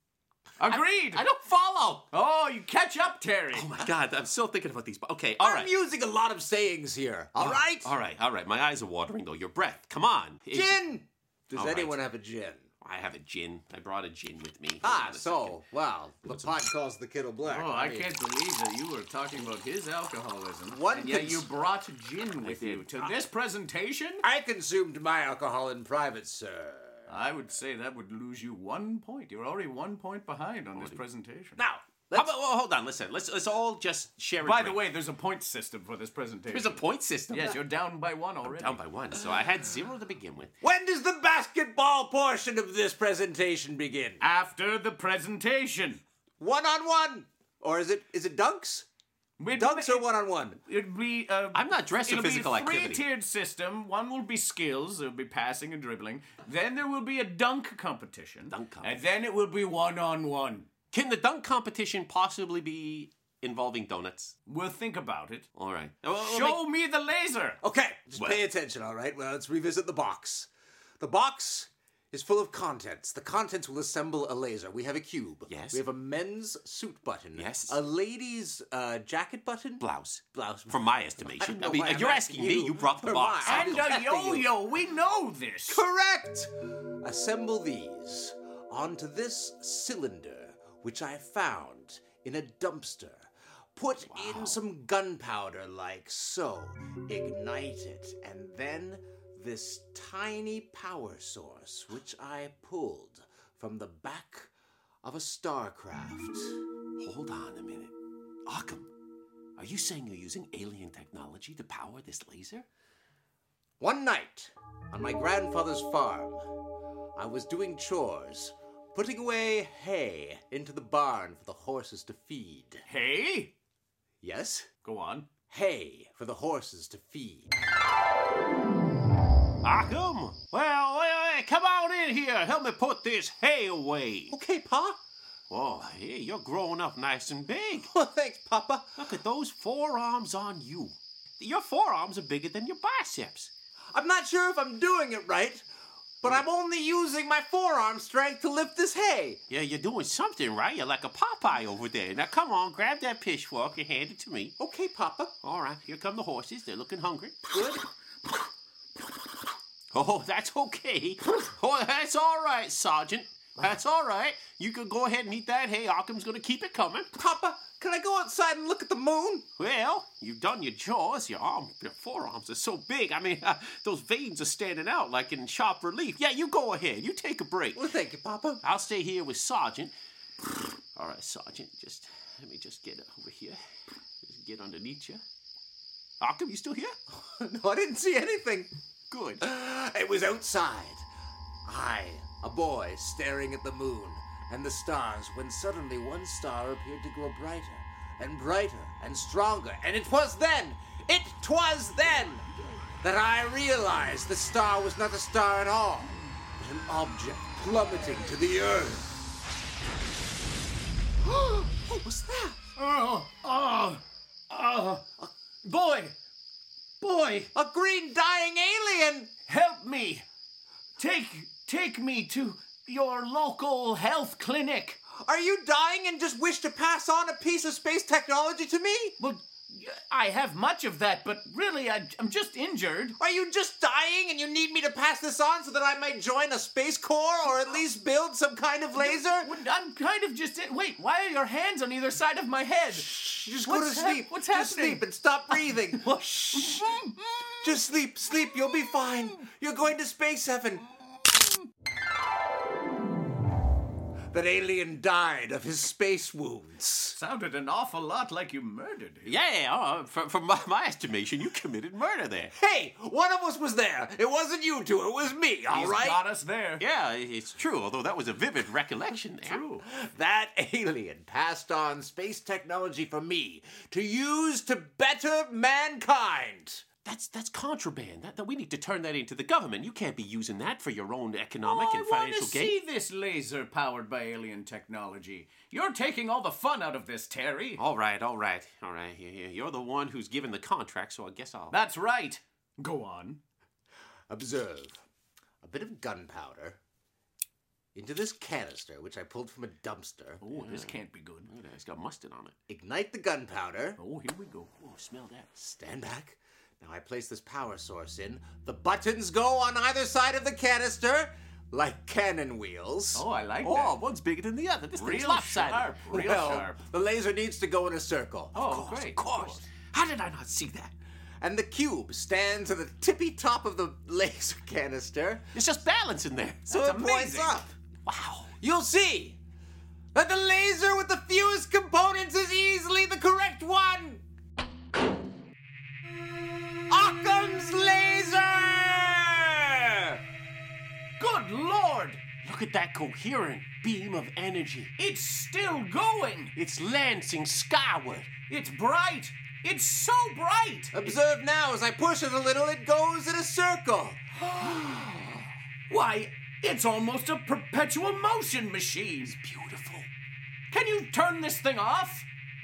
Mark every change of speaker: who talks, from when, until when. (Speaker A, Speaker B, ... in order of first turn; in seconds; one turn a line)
Speaker A: 0.6-1.2
Speaker B: 0.6-2.0
Speaker A: 2.1-3.7
Speaker B: 3.5-5.7
Speaker C: 5.4-7.9
Speaker B: 7.3-10.8
Speaker C: 10.5-12.6
Speaker B: 11.5-12.0
Speaker B: 12.8-15.6
Speaker C: 14.8-18.1
Speaker A: 17.4-24.2
Speaker C: 20.7-21.5
Speaker B: 22.4-23.2
Speaker C: 24.2-27.1
Speaker A: 27.1-31.6
Speaker B: 30.7-31.0
Speaker C: 31.6-32.3
Speaker B: 32.1-34.9
Speaker A: 34.4-38.8
Speaker B: 36.5-37.6
Speaker B: 38.4-40.5
Speaker C: 40.6-44.2
Speaker A: 44.2-46.0
Speaker C: 46.4-48.9
Speaker A: 49.4-50.0
Speaker C: 49.5-50.6
Speaker A: 50.6-60.7
Speaker B: 51.5-53.0
Speaker B: 58.5-59.0
Speaker B: 60.9-64.3
Speaker A: 64.5-65.5
Speaker B: 65.5-66.6
Speaker A: 66.2-67.6
Speaker C: 67.6-70.5
Speaker B: 68.1-68.4
Speaker C: 71.0-84.5
Speaker B: 75.5-75.8
Speaker B: 77.3-77.8
Speaker B: 79.8-84.0
Speaker A: 83.4-85.8
Speaker C: 85.7-104.5
Speaker B: 94.0-94.6
Speaker C: 105.0-106.6
Speaker B: 107.0-107.9
Speaker B: 108.5-108.9
Speaker B: 109.6-112.7
Speaker C: 113.8-116.5
Speaker C: 117.2-122.8
Speaker A: 122.8-123.5
Speaker C: 124.2-124.7
Speaker A: 124.8-125.3
Speaker C: 125.5-127.5
Speaker B: 129.6-134.4
Speaker C: 134.3-135.0
Speaker B: 135.5-137.9
Speaker C: 137.9-139.0
Speaker B: 139.0-143.5
Speaker C: 143.9-145.7
Speaker C: 146.2-149.4
Speaker B: 149.5-154.6
Speaker C: 154.6-155.3
Speaker B: 155.4-157.4
Speaker C: 157.4-157.8
Speaker B: 159.9-167.1
Speaker C: 167.1-169.4
Speaker B: 169.6-177.8
Speaker C: 177.7-178.6
Speaker B: 178.6-183.6
Speaker B: 184.2-185.2
Speaker B: 186.2-186.9
Speaker C: 187.1-188.7
Speaker B: 189.1-189.4
Speaker C: 189.4-191.1
Speaker C: 191.7-202.5
Speaker C: 203.0-209.1
Speaker C: 211.7-212.6
Speaker A: 212.8-215.0
Speaker C: 215.2-215.7
Speaker A: 215.7-216.1
Speaker A: 217.0-217.5
Speaker C: 217.5-219.3
Speaker A: 219.5-220.2
Speaker A: 221.0-225.0
Speaker C: 225.2-229.2
Speaker A: 229.2-233.2
Speaker C: 233.2-239.5
Speaker A: 238.9-243.1
Speaker C: 242.9-247.0
Speaker A: 243.6-245.8
Speaker A: 246.5-247.5
Speaker C: 247.6-250.9
Speaker C: 254.3-257.2
Speaker A: 257.2-259.3
Speaker B: 259.2-262.5
Speaker C: 262.6-266.2
Speaker A: 265.7-266.8
Speaker B: 266.8-269.6
Speaker A: 269.3-269.8
Speaker C: 269.9-276.8
Speaker B: 277.1-282.8
Speaker A: 281.6-287.8
Speaker B: 287.8-291.8
Speaker A: 291.7-293.4
Speaker C: 294.3-295.0
Speaker C: 295.6-296.8
Speaker C: 297.9-300.4
Speaker A: 300.4-301.5
Speaker B: 300.5-302.6
Speaker C: 302.7-304.0
Speaker A: 304.0-304.7
Speaker B: 304.8-305.5
Speaker C: 305.6-313.2
Speaker A: 313.1-314.0
Speaker B: 313.6-315.9
Speaker A: 314.9-316.8
Speaker C: 316.1-318.6
Speaker A: 318.5-319.6
Speaker B: 318.5-320.9
Speaker C: 321.4-325.4
Speaker B: 325.5-326.7
Speaker A: 326.7-327.7
Speaker C: 326.7-327.7
Speaker B: 328.1-328.5
Speaker C: 328.6-329.4
Speaker C: 330.1-334.2
Speaker C: 336.9-340.2
Speaker A: 341.2-342.2
Speaker B: 342.4-344.9
Speaker A: 345.0-346.5
Speaker B: 346.6-348.3
Speaker A: 348.5-350.9
Speaker C: 350.9-355.3
Speaker A: 355.9-359.3
Speaker B: 359.2-360.1
Speaker A: 360.7-362.3